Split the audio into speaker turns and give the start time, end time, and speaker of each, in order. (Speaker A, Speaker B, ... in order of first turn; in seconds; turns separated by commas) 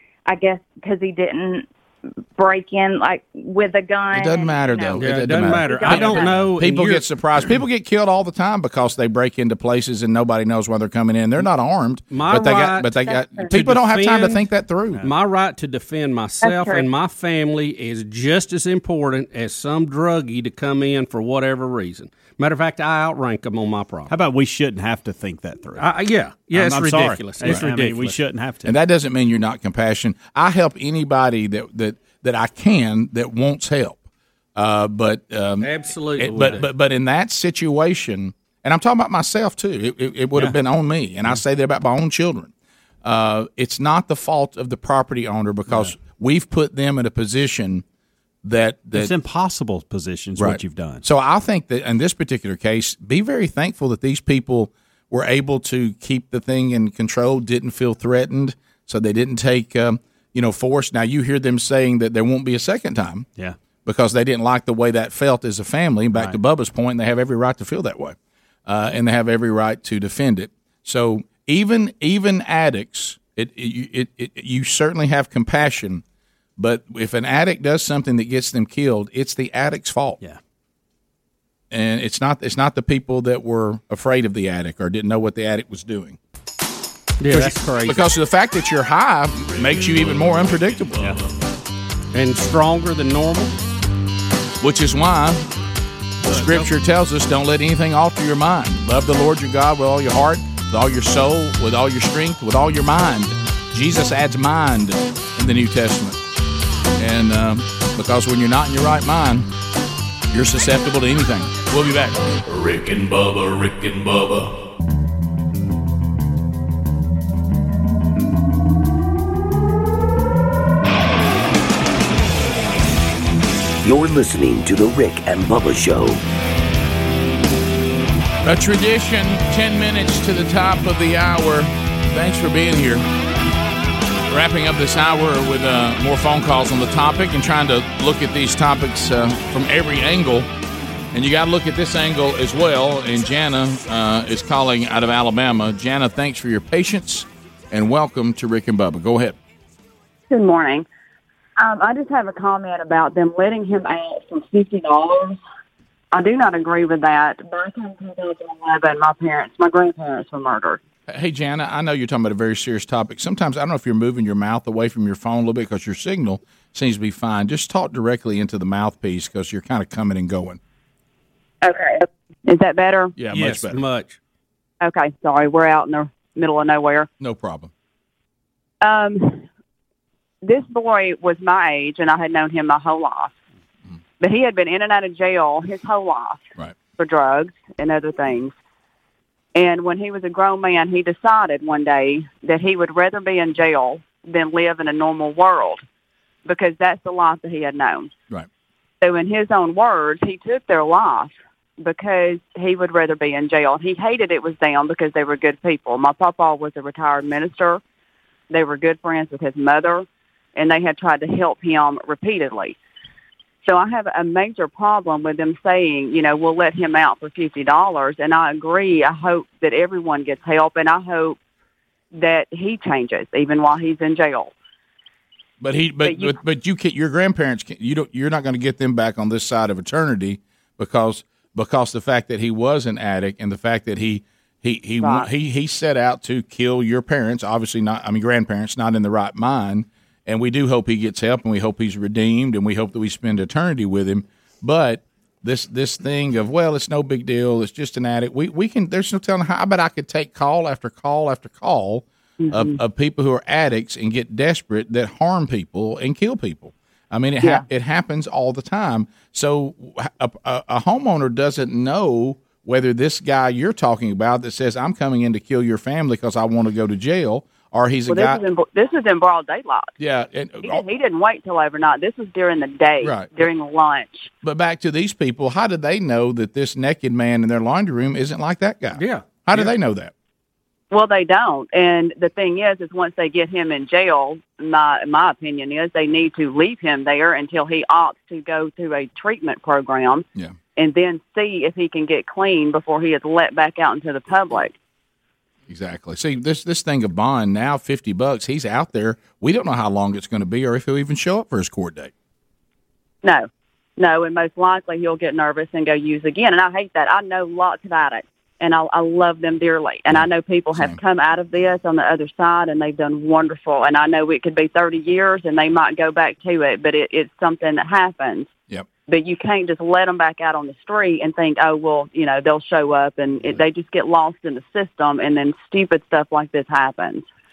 Speaker A: 0.3-1.7, Speaker A: 2.4-6.4, Speaker B: 4.1-15.1, Speaker C: 5.0-7.0, Speaker C: 12.1-24.1, Speaker A: 13.1-13.5, Speaker A: 16.4-16.9, Speaker D: 24.1-25.9, Speaker C: 25.8-28.2, Speaker D: 26.5-28.8, Speaker B: 28.6-34.0, Speaker B: 34.6-42.5, Speaker C: 35.6-36.7, Speaker B: 43.0-47.8, Speaker B: 48.4-49.1, Speaker D: 48.9-51.0, Speaker B: 50.4-63.3, Speaker B: 63.9-76.0, Speaker B: 76.6-80.2, Speaker B: 81.7-86.2, Speaker C: 87.2-88.1, Speaker B: 87.3-91.2, Speaker E: 89.8-90.3, Speaker C: 92.1-93.5, Speaker B: 94.6-95.5, Speaker B: 96.2-106.2, Speaker C: 96.3-96.7, Speaker B: 107.0-109.5, Speaker B: 110.3-112.2, Speaker E: 112.5-114.5, Speaker F: 123.8-126.2, Speaker B: 128.4-133.1, Speaker B: 134.3-140.5, Speaker B: 141.1-149.4, Speaker G: 150.3-150.9, Speaker G: 151.6-155.4, Speaker G: 156.1-160.8, Speaker B: 161.1-170.6, Speaker A: 171.7-171.9, Speaker G: 172.5-173.1, Speaker B: 173.2-173.8, Speaker C: 173.3-174.2, Speaker G: 174.8-177.1, Speaker B: 177.2-177.7, Speaker G: 178.8-179.5, Speaker G: 180.4-183.3, Speaker G: 184.2-188.5, Speaker G: 189.6-195.8, Speaker G: 196.5-198.1, Speaker G: 199.0-207.8, Speaker G: 208.5-212.8, Speaker G: 213.6-221.4, Speaker G: 222.1-224.5, Speaker B: 225.6-268.4, Speaker G: 226.0-226.4, Speaker G: 235.0-235.3, Speaker G: 252.4-252.8, Speaker G: 268.1-269.9, Speaker B: 270.0-270.9, Speaker G: 270.6-274.3, Speaker B: 273.0-273.3, Speaker B: 274.4-280.1, Speaker C: 278.9-279.7, Speaker G: 280.9-294.7, Speaker B: 295.7-302.1, Speaker G: 303.2-318.5, Speaker B: 310.1-311.0, Speaker G: 319.1-327.3